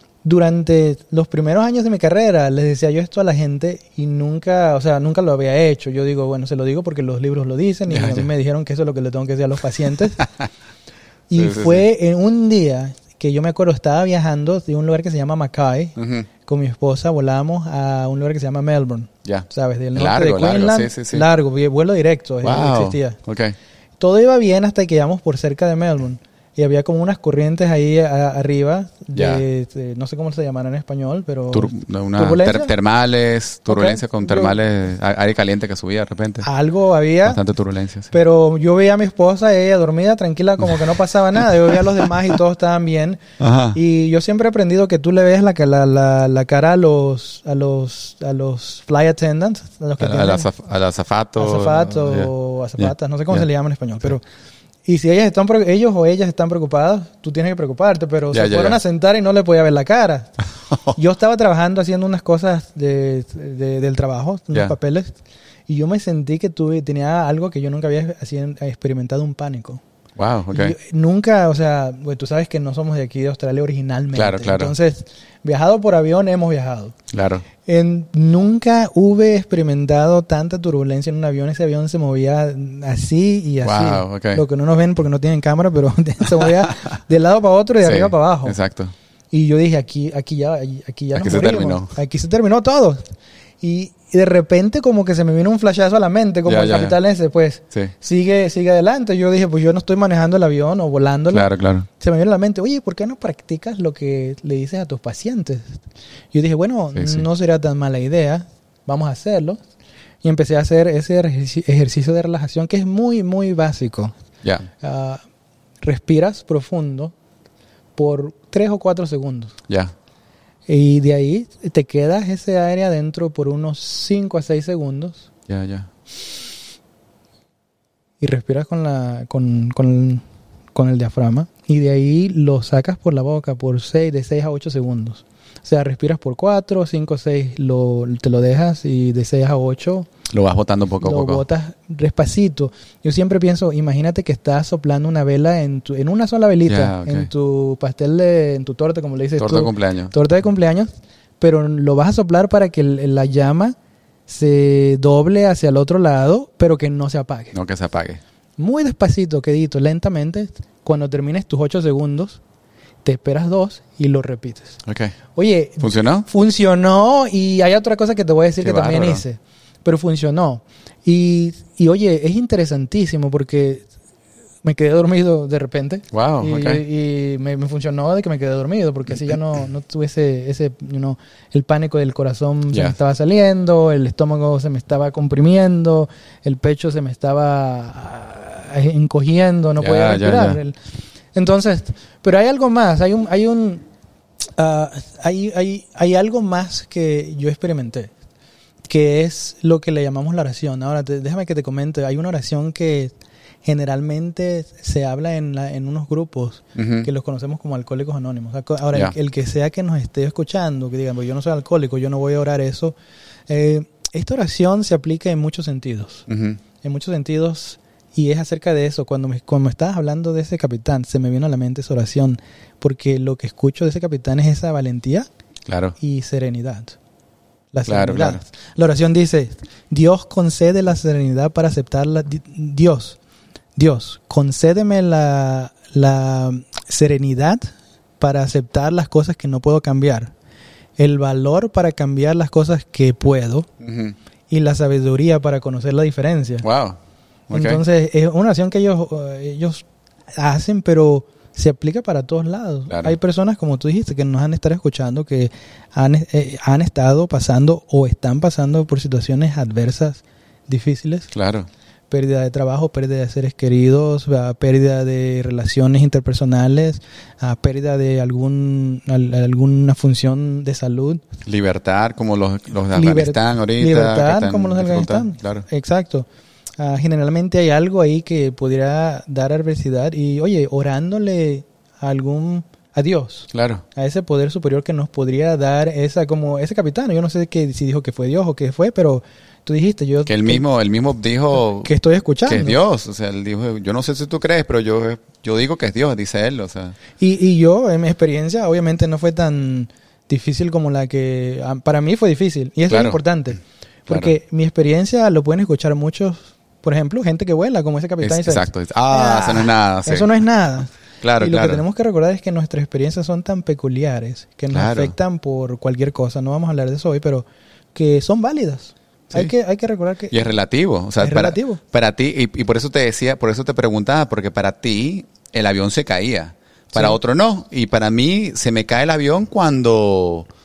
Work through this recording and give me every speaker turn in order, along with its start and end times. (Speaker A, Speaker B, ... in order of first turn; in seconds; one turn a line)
Speaker A: 0.2-10.2
Speaker B: 7.9-8.3
Speaker A: 11.3-23.2
Speaker B: 11.3-11.9
Speaker B: 15.9-16.3
Speaker B: 19.2-21.3
Speaker B: 22.4-23.6
Speaker A: 24.0-32.7
Speaker B: 29.1-29.4
Speaker B: 31.5-36.5
Speaker A: 33.7-34.5
Speaker A: 36.4-37.4
Speaker B: 37.2-38.1
Speaker A: 38.1-43.2
Speaker B: 43.4-43.8
Speaker A: 43.7-50.5
Speaker B: 50.0-53.5
Speaker A: 51.4-54.2
Speaker A: 54.9-60.4
Speaker B: 58.3-58.8
Speaker B: 60.7-61.0
Speaker A: 60.9-69.8
Speaker B: 70.2-70.8
Speaker A: 70.5-76.9
Speaker B: 74.1-74.7
Speaker B: 77.1-77.5
Speaker A: 77.6-88.6
Speaker B: 83.6-84.4
Speaker B: 87.8-88.9
Speaker A: 89.3-105.8
Speaker B: 91.1-92.0
Speaker B: 96.5-97.0
Speaker B: 101.3-101.9
Speaker A: 106.3-109.6
Speaker B: 106.9-107.2
Speaker A: 110.2-114.1
Speaker A: 114.8-115.2
Speaker A: 115.8-117.1
Speaker A: 118.0-119.5
Speaker A: 120.7-125.2
Speaker B: 125.5-125.9
Speaker A: 128.2-140.1
Speaker B: 140.3-141.4
Speaker A: 141.0-153.8
Speaker B: 146.7-147.3
Speaker B: 149.4-150.1
Speaker A: 154.3-157.5
Speaker B: 157.5-158.2
Speaker A: 158.6-162.4
Speaker A: 163.0-164.8
Speaker B: 164.8-165.1
Speaker A: 165.3-173.8
Speaker B: 165.8-166.3
Speaker B: 168.6-169.2
Speaker A: 174.6-190.8
Speaker B: 176.1-176.8
Speaker B: 182.7-182.9
Speaker B: 189.8-190.6
Speaker A: 191.3-193.8
Speaker A: 194.6-198.1
Speaker A: 198.8-212.9
Speaker B: 206.7-207.1
Speaker A: 213.5-216.2
Speaker B: 216.3-216.6
Speaker A: 216.8-225.3
Speaker B: 225.7-225.9
Speaker A: 226.0-226.9
Speaker A: 227.7-233.2
Speaker B: 227.8-228.4
Speaker A: 233.8-240.3
Speaker A: 241.0-243.7
Speaker B: 243.8-244.2
Speaker A: 244.5-246.7
Speaker B: 246.6-247.0
Speaker B: 247.5-247.8
Speaker A: 247.5-249.8
Speaker A: 250.4-261.3
Speaker B: 252.9-253.2
Speaker B: 261.3-261.7
Speaker A: 262.1-271.2
Speaker B: 271.4-275.6
Speaker A: 272.9-276.2
Speaker A: 276.8-290.6
Speaker B: 283.5-283.8
Speaker B: 290.2-291.9
Speaker A: 291.8-292.8
Speaker B: 292.4-296.9
Speaker A: 297.2-320.4
Speaker B: 302.9-303.2
Speaker B: 304.1-304.3
Speaker B: 308.2-310.3
Speaker B: 311.2-311.8
Speaker B: 314.7-315.1
Speaker B: 320.3-330.5
Speaker A: 321.2-321.8
Speaker A: 326.9-327.2